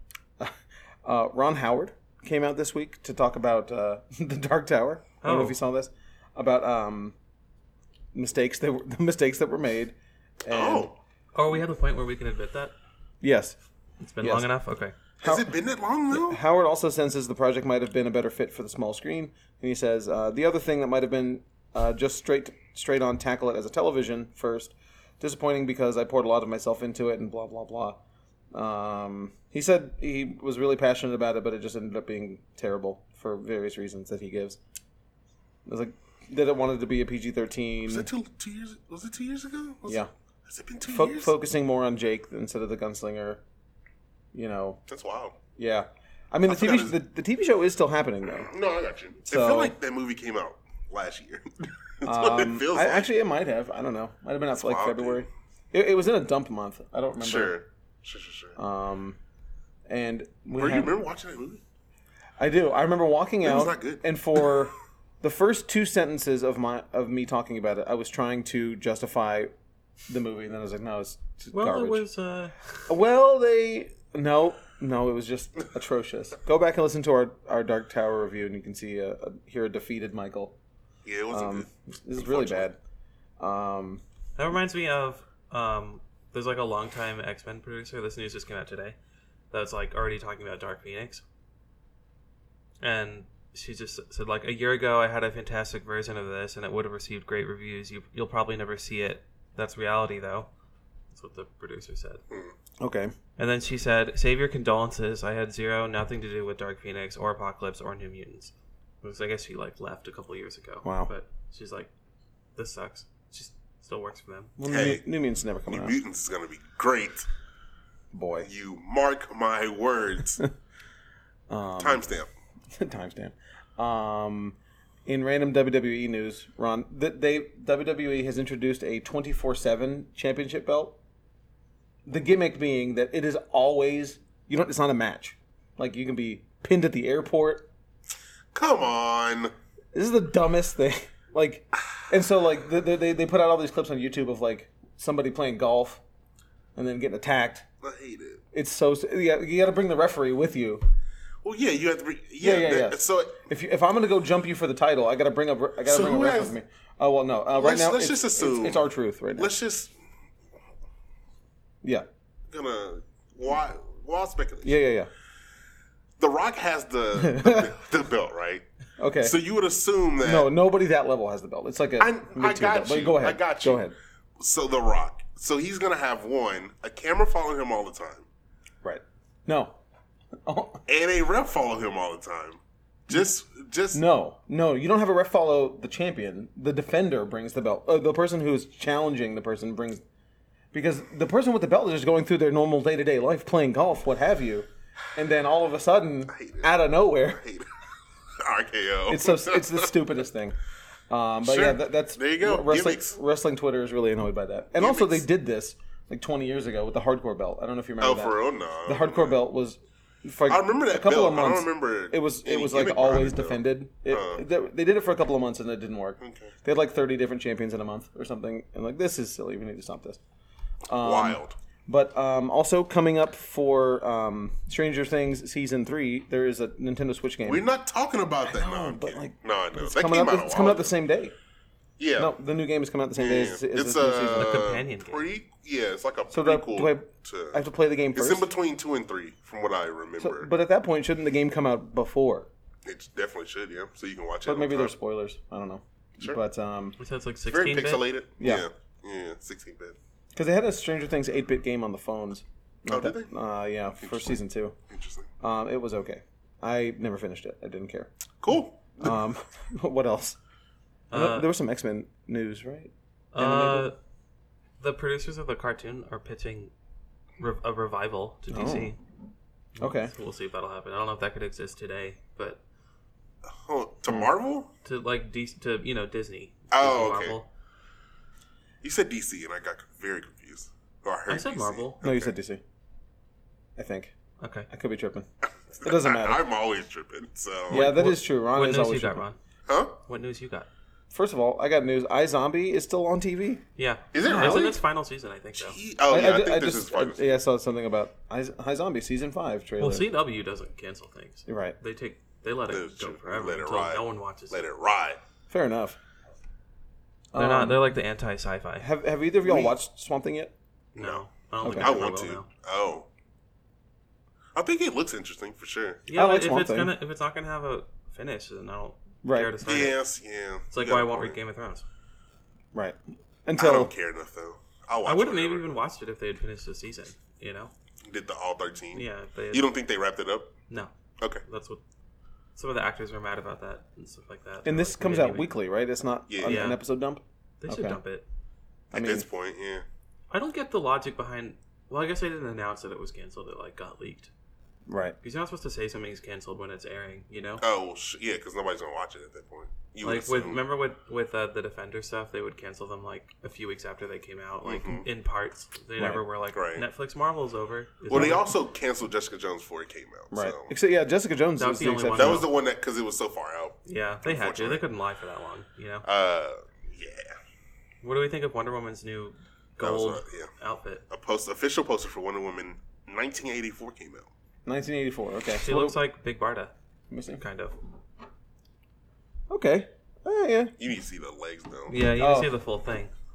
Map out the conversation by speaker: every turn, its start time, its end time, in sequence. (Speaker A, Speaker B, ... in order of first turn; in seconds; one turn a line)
Speaker A: 0.4-7.2
Speaker B: 5.2-5.6
Speaker A: 8.1-10.9
Speaker C: 10.5-11.0
Speaker B: 11.3-12.7
Speaker A: 13.2-13.6
Speaker B: 14.0-15.0
Speaker A: 14.2-14.5
Speaker C: 15.2-16.4
Speaker A: 15.2-15.6
Speaker A: 16.1-28.0
Speaker A: 28.5-34.6
Speaker A: 35.7-38.1
Speaker C: 37.9-41.3
Speaker A: 39.9-40.1
Speaker A: 40.8-43.4
Speaker A: 44.3-44.8
Speaker C: 44.9-45.4
Speaker A: 45.6-48.5
Speaker C: 46.5-47.0
Speaker C: 48.3-53.1
Speaker A: 49.3-49.8
Speaker A: 52.0-57.6
Speaker C: 54.5-55.3
Speaker C: 57.2-58.6
Speaker A: 58.6-59.2
Speaker A: 59.9-61.0
Speaker C: 60.6-61.6
Speaker A: 62.4-69.5
Speaker C: 63.4-64.6
Speaker A: 70.1-72.0
Speaker B: 71.5-72.9
Speaker A: 72.9-80.6
Speaker C: 81.0-82.7
Speaker A: 81.3-82.8
Speaker A: 83.4-84.0
Speaker B: 84.4-89.0
Speaker B: 89.5-91.2
Speaker B: 92.8-100.5
Speaker B: 101.1-102.2
Speaker A: 102.8-103.1
Speaker B: 103.4-111.9
Speaker A: 110.8-111.1
Speaker B: 112.6-114.5
Speaker A: 114.6-116.0
Speaker C: 114.7-115.0
Speaker C: 115.7-117.3
Speaker A: 118.1-118.5
Speaker C: 118.4-120.4
Speaker A: 121.5-122.1
Speaker C: 121.8-122.3
Speaker A: 122.7-131.0
Speaker A: 132.1-137.7
Speaker C: 138.5-139.5
Speaker A: 139.9-146.0
Speaker A: 146.8-147.7
Speaker C: 147.8-148.4
Speaker A: 148.5-150.8
Speaker C: 151.4-153.5
Speaker A: 152.4-159.5
Speaker C: 155.8-156.6
Speaker C: 157.6-158.8
Speaker C: 159.4-159.9
Speaker C: 162.5-164.8
Speaker A: 164.6-165.1
Speaker C: 166.2-168.7
Speaker A: 167.2-167.7
Speaker A: 169.0-169.4
Speaker C: 169.2-170.5
Speaker A: 170.2-173.9
Speaker C: 172.0-178.3
Speaker A: 178.8-179.8
Speaker A: 180.4-180.8
Speaker C: 180.9-184.0
Speaker A: 183.9-190.0
Speaker A: 190.7-197.4
Speaker C: 196.3-196.7
Speaker C: 197.2-197.7
Speaker C: 198.4-199.9
Speaker A: 199.1-200.6
Speaker A: 201.1-220.2
Speaker C: 201.4-203.2
Speaker C: 204.8-205.2
Speaker C: 208.0-209.4
Speaker C: 210.5-214.4
Speaker C: 216.2-216.5
Speaker A: 220.9-227.7
Speaker C: 221.0-221.6
Speaker C: 227.4-230.9
Speaker A: 228.4-231.3
Speaker C: 232.0-232.3
Speaker A: 232.2-234.7
Speaker C: 233.2-237.6
Speaker B: 234.4-235.2
Speaker A: 236.3-238.5
Speaker C: 238.1-240.5
Speaker A: 240.2-242.5
Speaker C: 242.8-244.9
Speaker A: 244.5-247.0
Speaker B: 247.0-248.1
Speaker C: 247.5-250.0
Speaker A: 248.4-248.7
Speaker A: 250.3-254.8
Speaker C: 252.9-253.3
Speaker C: 254.0-254.4
Speaker C: 254.9-255.3
Speaker A: 255.4-260.4
Speaker C: 258.4-259.2
Speaker B: 261.1-261.5
Speaker A: 261.1-263.9
Speaker B: 263.3-264.0
Speaker B: 264.8-266.7
Speaker B: 267.4-269.0
Speaker A: 268.5-268.9
Speaker B: 269.8-272.6
Speaker A: 269.8-270.1
Speaker C: 273.5-274.7
Speaker B: 274.8-277.5
Speaker C: 276.7-277.4
Speaker C: 278.8-282.3
Speaker B: 281.3-282.0
Speaker A: 282.0-282.6
Speaker A: 283.8-284.1
Speaker B: 284.4-284.7
Speaker A: 284.7-285.3
Speaker C: 285.7-287.9
Speaker A: 285.8-286.4
Speaker A: 287.7-289.2
Speaker B: 287.7-289.4
Speaker C: 289.7-290.0
Speaker B: 290.1-290.7
Speaker A: 291.1-293.6
Speaker B: 293.8-295.8
Speaker C: 294.1-294.8
Speaker A: 294.2-294.8
Speaker C: 295.6-297.2
Speaker A: 296.1-300.1
Speaker B: 299.8-304.7
Speaker A: 301.5-301.8
Speaker C: 302.7-305.2
Speaker A: 305.5-306.0
Speaker A: 307.3-307.9
Speaker B: 307.4-308.9
Speaker A: 308.8-310.5
Speaker B: 311.0-312.5
Speaker C: 311.0-313.1
Speaker A: 311.6-311.9
Speaker C: 314.6-316.1
Speaker B: 316.1-320.0
Speaker A: 316.1-316.9
Speaker A: 319.2-319.6
Speaker C: 319.6-321.4
Speaker B: 320.7-321.9
Speaker A: 322.7-323.9
Speaker C: 323.6-325.7
Speaker B: 325.0-327.7
Speaker C: 328.1-330.5
Speaker B: 328.9-329.7
Speaker B: 331.4-331.8
Speaker B: 332.6-335.5
Speaker A: 334.6-338.0
Speaker C: 336.3-336.7
Speaker B: 336.4-336.8
Speaker B: 337.6-338.2
Speaker A: 338.9-339.3
Speaker C: 338.9-339.9
Speaker B: 340.3-344.3
Speaker A: 344.9-345.2
Speaker B: 345.2-347.6
Speaker C: 347.6-350.6
Speaker B: 350.0-358.5
Speaker C: 354.6-355.1
Speaker C: 356.5-356.9
Speaker C: 358.1-360.7
Speaker A: 358.1-358.4
Speaker A: 360.3-362.5
Speaker B: 361.6-362.5
Speaker C: 362.1-364.8
Speaker B: 363.9-366.1
Speaker C: 366.0-367.3
Speaker B: 368.0-371.0
Speaker C: 369.8-370.5
Speaker C: 371.1-374.3
Speaker A: 374.7-376.0
Speaker B: 375.6-376.7
Speaker A: 377.1-377.4
Speaker B: 377.4-377.8
Speaker A: 379.5-380.7
Speaker C: 380.8-382.0
Speaker B: 381.9-383.1
Speaker A: 382.1-382.5